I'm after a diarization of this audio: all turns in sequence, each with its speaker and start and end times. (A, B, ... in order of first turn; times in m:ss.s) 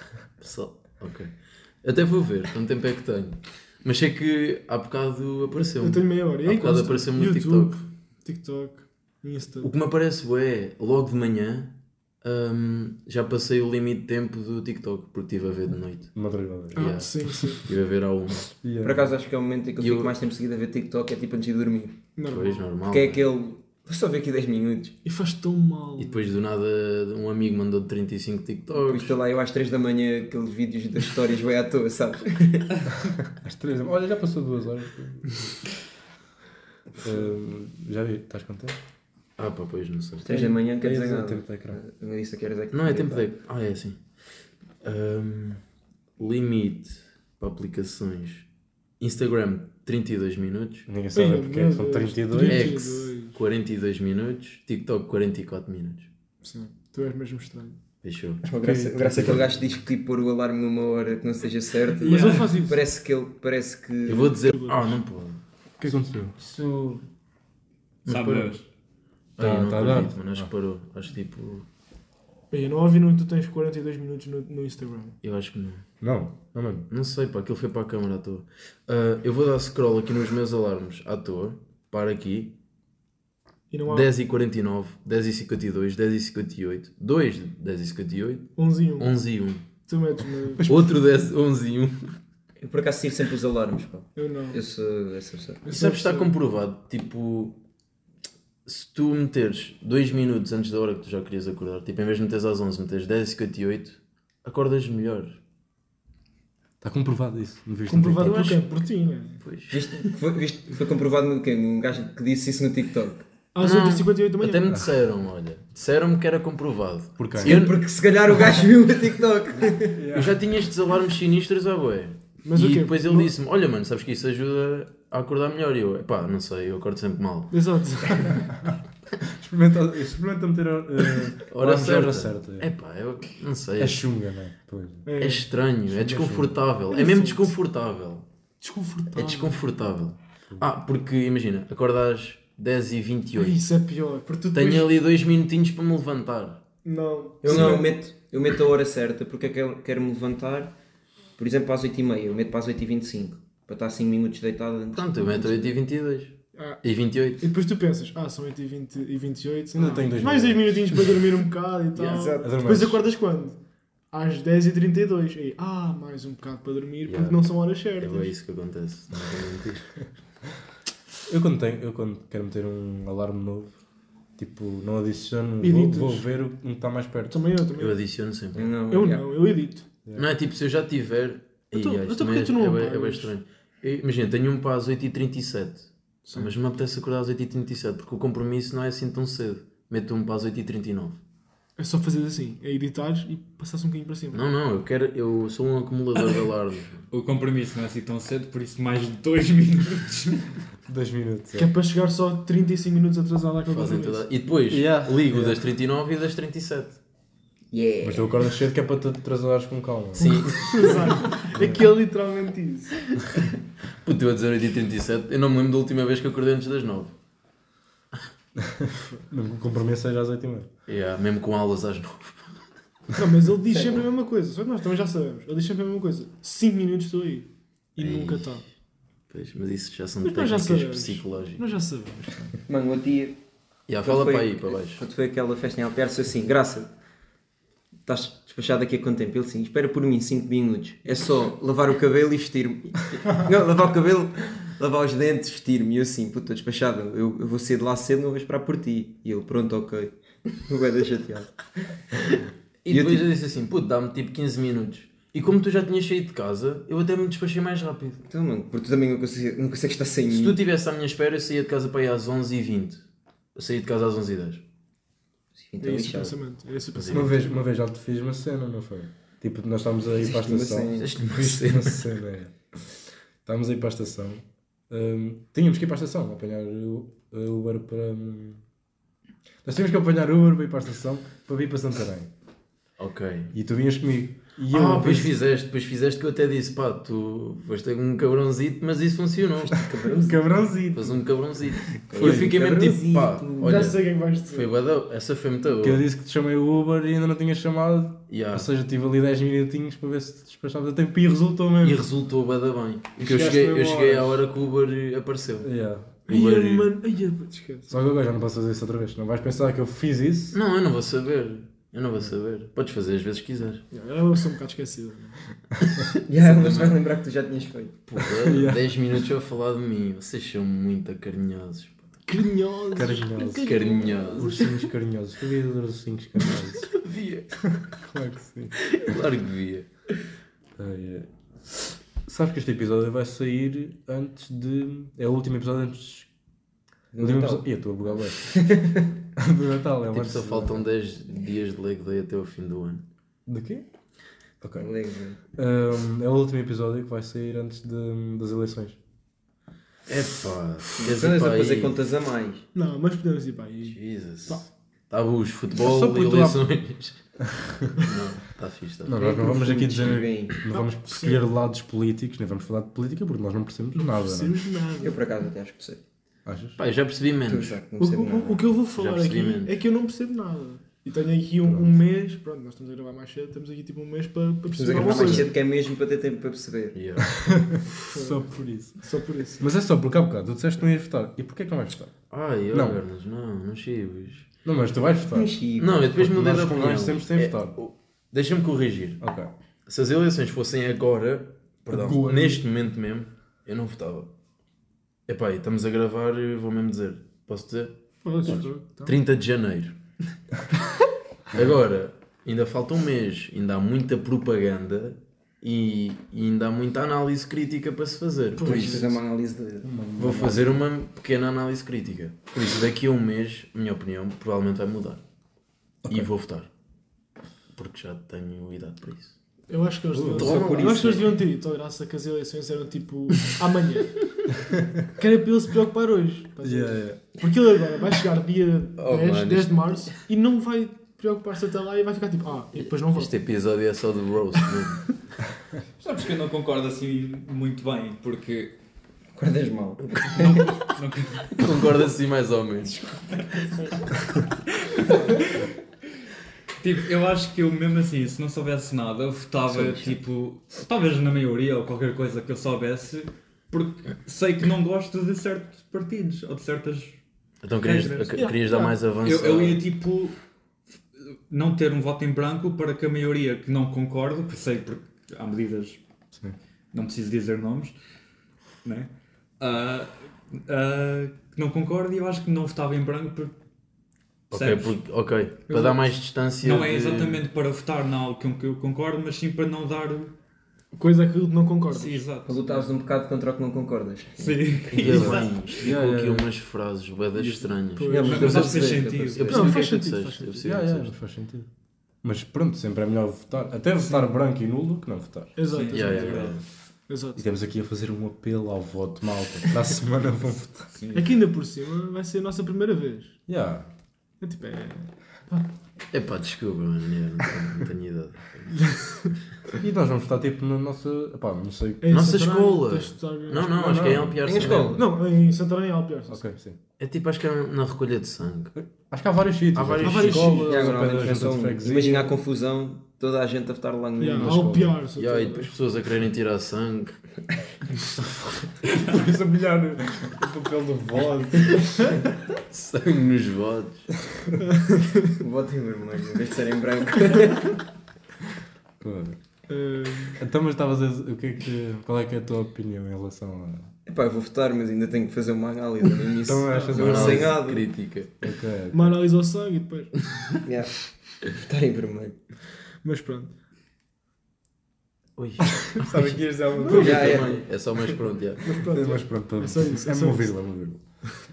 0:00.4-0:07.8 A
0:05.6-0:09.7 B
0:09.6-0:16.1 A
0:16.1-0:17.0 C
0:16.7-0:17.7 B
0:16.7-0:18.4 A
0:18.5-0:19.1 C
0:18.8-0:22.0 D
0:19.8-0:20.1 A
0:22.2-0:22.7 B
0:22.3-0:23.2 A
0:22.9-0:25.0 D
0:25.0-0:26.3 B
0:26.0-0:29.2 A
0:28.7-0:32.9 D
0:33.2-0:35.5 C
0:37.0-0:38.8 C
0:39.4-0:40.5 A
0:40.2-0:43.3 D
0:40.3-0:41.8 C
0:42.7-0:44.0 A
0:44.8-0:45.6 A
0:46.2-0:48.5 A
0:49.0-0:50.9 A
0:50.9-0:52.8 C
0:51.1-0:53.4 B
0:52.4-0:56.1 A
0:56.4-0:57.8 B
0:58.0-0:58.4 A
0:58.4-1:04.4 D
0:58.5-0:59.5 C
1:02.0-1:02.8 B
1:04.0-1:05.4 A
1:04.4-1:05.0 B
1:05.8-1:06.4 C
1:06.5-1:07.0 D
1:08.0-1:08.6 A
1:08.0-1:08.6 E
1:09.4-1:11.7 A
1:09.4-1:10.5 C
1:12.5-1:15.2 B
1:15.2-1:15.8 A
1:16.0-1:16.9 C
1:16.9-1:22.6 A
1:23.7-1:24.1 B
1:23.9-1:29.7 A
1:28.6-1:29.1 B
1:29.8-1:30.9 B
1:30.6-1:32.1 A
1:32.6-1:35.6 D
1:34.1-1:34.6 B
1:35.6-1:36.3 B
1:35.7-1:37.6 A
1:38.6-1:45.4 A
1:46.8-1:48.5 C
1:47.9-1:49.4 B
1:48.2-1:48.6 A
1:49.4-1:49.8 A
1:49.7-1:53.3 D
1:53.5-1:54.7 B
1:53.6-1:57.8 A
1:57.2-1:57.6 C
1:57.4-2:00.0 D
1:59.9-2:00.4 C
2:00.1-2:07.6 A
2:02.4-2:03.3 B
2:07.5-2:08.6 B
2:09.2-2:12.7 C
2:11.5-2:14.0 A
2:13.8-2:15.0 C
2:15.0-2:15.5 B
2:15.2-2:18.2 A
2:15.9-2:16.6 C
2:16.9-2:17.5 B
2:18.6-2:19.6 B
2:19.1-2:23.6 A
2:23.3-2:25.0 B
2:24.5-2:26.6 A
2:26.8-2:27.8 B
2:27.4-2:28.0 A
2:27.4-2:30.8 D
2:31.4-2:35.7 D
2:34.9-2:37.5 A
2:36.5-2:36.8 B
2:37.4-2:43.6 B
2:39.7-2:41.1 C
2:41.9-2:42.5 D
2:42.4-2:43.0 C
2:44.1-2:48.3 B
2:47.0-2:49.9 A
2:51.3-2:53.8 C
2:54.4-2:57.4 C
2:55.6-2:56.2 B
2:57.3-2:58.0 B
2:57.8-2:58.7 A
2:58.5-2:59.3 D
2:58.9-2:59.8 B
3:00.2-3:11.2 A
3:01.7-3:03.3 B
3:06.2-3:06.5 B
3:11.8-3:14.4 B
3:14.3-3:17.0 A
3:17.1-3:20.6 E
3:20.9-3:21.7 C
3:21.5-3:24.3 B
3:23.7-3:27.0 A
3:24.7-3:25.6 C
3:27.7-3:28.5 D
3:28.0-3:30.5 C
3:30.2-3:31.4 A
3:30.2-3:33.4 B
3:31.6-3:31.8 C
3:34.0-3:37.1 A
3:38.6-3:40.7 C
3:40.9-3:42.6 A
3:43.1-3:48.6 B
3:43.7-3:44.0 D
3:48.0-3:48.6 A
3:49.3-3:51.6 A
3:50.2-3:52.6 B
3:52.7-3:53.4 D
3:53.9-3:55.0 A
3:54.0-3:56.9 D
3:58.0-4:13.2 D
4:12.8-4:18.2 A
4:18.2-4:20.6 D
4:20.3-4:23.0 A
4:23.5-4:24.6 A
4:25.6-4:26.4 D
4:25.8-4:27.5 B
4:26.9-4:27.3 A
4:27.1-4:32.6 C
4:30.1-4:31.1 D
4:30.9-4:32.1 A
4:33.4-4:38.6 C
4:39.6-4:42.3 C
4:43.0-4:43.5 A
4:43.5-4:45.3 C
4:44.7-4:49.8 A
4:49.7-4:50.5 D
4:50.2-4:52.7 C
4:50.9-4:56.0 A
4:52.1-4:53.9 D
4:53.6-4:54.7 B
4:55.8-5:02.1 C
4:58.3-4:58.7 A
5:01.8-5:05.7 A
5:03.2-5:04.4 C
5:05.6-5:06.2 C
5:06.2-5:06.9 A
5:06.3-5:08.0 B
5:07.9-5:10.6 C
5:10.5-5:13.8 A
5:13.9-5:15.4 B
5:16.2-5:18.0 D
5:16.3-5:17.0 A
5:18.0-5:22.0 A
5:18.2-5:18.8 C
5:22.2-5:24.8 B
5:22.9-5:23.8 C
5:23.6-5:24.7 A
5:24.4-5:26.9 C
5:26.9-5:27.5 A
5:27.6-5:28.8 C
5:28.8-5:29.8 A
5:30.8-5:31.3 C
5:32.2-5:36.3 C
5:37.1-5:39.1 D
5:37.2-5:38.5 C
5:39.4-5:40.9 C
5:40.1-5:43.0 A
5:43.4-5:43.8 C
5:44.6-5:44.9 C
5:44.8-5:45.4 D
5:45.5-5:49.0 C
5:50.1-5:52.0 A
5:51.0-5:52.7 D
5:52.7-5:54.6 B
5:53.8-5:57.2 A
5:55.8-5:56.6 C
5:57.9-5:59.2 A
5:59.0-6:04.6 C
5:59.1-6:00.6 D
6:00.7-6:01.4 B
6:03.9-6:05.2 B
6:05.0-6:06.0 D
6:06.4-6:06.8 C
6:06.8-6:07.8 A
6:07.5-6:08.6 D
6:08.0-6:15.5 B
6:08.9-6:09.7 A
6:11.6-6:11.9 C
6:14.7-6:17.0 D
6:15.0-6:15.4 C
6:16.9-6:17.3 A
6:17.3-6:19.0 C
6:18.0-6:19.7 B
6:19.6-6:22.1 C
6:22.3-6:24.5 A
6:22.7-6:23.0 C
6:24.6-6:25.6 C
6:25.3-6:26.0 D
6:25.8-6:29.2 A
6:26.1-6:27.8 C
6:29.2-6:29.5 C
6:29.9-6:34.3 A
6:31.9-6:32.6 B
6:35.3-6:40.0 A
6:38.2-6:39.2 B
6:41.5-6:49.1 A
6:48.6-6:49.1 B
6:48.6-6:50.6 D
6:49.8-6:50.6 C
6:50.2-6:55.2 A
6:56.1-6:56.7 A
6:57.7-6:59.3 A
6:59.7-7:04.2 B
7:00.1-7:00.6 C
7:00.4-7:01.3 A
7:00.4-7:01.4 D
7:05.2-7:13.4 B
7:06.6-7:07.2 C
7:09.0-7:10.2 A
7:12.7-7:15.1 A
7:16.0-7:18.8 E
7:19.3-7:20.6 D
7:20.1-7:20.5 A
7:20.3-7:21.7 E
7:21.6-7:23.0 A
7:23.3-7:23.9 E
7:24.8-7:25.6 E
7:26.8-7:37.2 E
7:29.7-7:30.2 D
7:37.6-7:39.8 A
7:37.8-7:38.4 E
7:38.3-7:39.0 B
7:39.2-7:40.4 E
7:41.2-7:46.0 E
7:46.9-7:47.9 E
7:48.8-7:53.5 E
7:54.5-7:55.0 E
7:54.5-7:57.4 A
7:55.7-7:56.1 B
7:56.6-8:00.3 E
8:00.9-8:02.3 B
8:01.9-8:02.9 E
8:02.4-8:05.4 D
8:04.4-8:05.9 E
8:04.9-8:11.1 A
8:05.1-8:06.5 C
8:07.4-8:08.6 B
8:08.1-8:09.7 D
8:08.2-8:09.7 E
8:09.4-8:10.6 B
8:10.6-8:11.7 C
8:12.2-8:15.5 C
8:14.0-8:14.3 B
8:15.6-8:17.4 B
8:15.7-8:16.6 E
8:15.9-8:16.6 A
8:17.4-8:20.9 C
8:20.9-8:21.4 E
8:21.1-8:23.4 B
8:23.5-8:23.9 C
8:24.4-8:25.7 B
8:26.1-8:28.8 A
8:29.8-8:32.2 C
8:32.0-8:36.5 B
8:32.1-8:35.0 A
8:33.8-8:34.4 C
8:34.4-8:35.0 D
8:36.3-8:36.8 C
8:37.0-8:38.7 A
8:38.7-8:42.4 C
8:39.7-8:40.7 A
8:40.0-8:41.4 B
8:40.6-8:44.8 D
8:44.2-8:45.7 B
8:44.4-8:45.0 C
8:45.2-8:47.2 A
8:48.9-8:52.1 C
8:52.7-8:54.1 A
8:54.5-8:55.4 B
8:55.4-8:57.8 D
8:59.0-8:59.4 C
8:59.7-9:00.4 B
9:00.4-9:03.9 C
9:04.0-9:07.9 D
9:06.4-9:07.6 C
9:06.7-9:07.2 B
9:06.9-9:08.4 A
9:08.4-9:09.2 C
9:08.9-9:10.3 B
9:10.6-9:12.4 D
9:13.0-9:13.5 B
9:15.4-9:18.8 A
9:15.8-9:17.6 C
9:16.8-9:17.5 B
9:16.9-9:17.6 D
9:18.6-9:20.5 B
9:18.7-9:21.3 C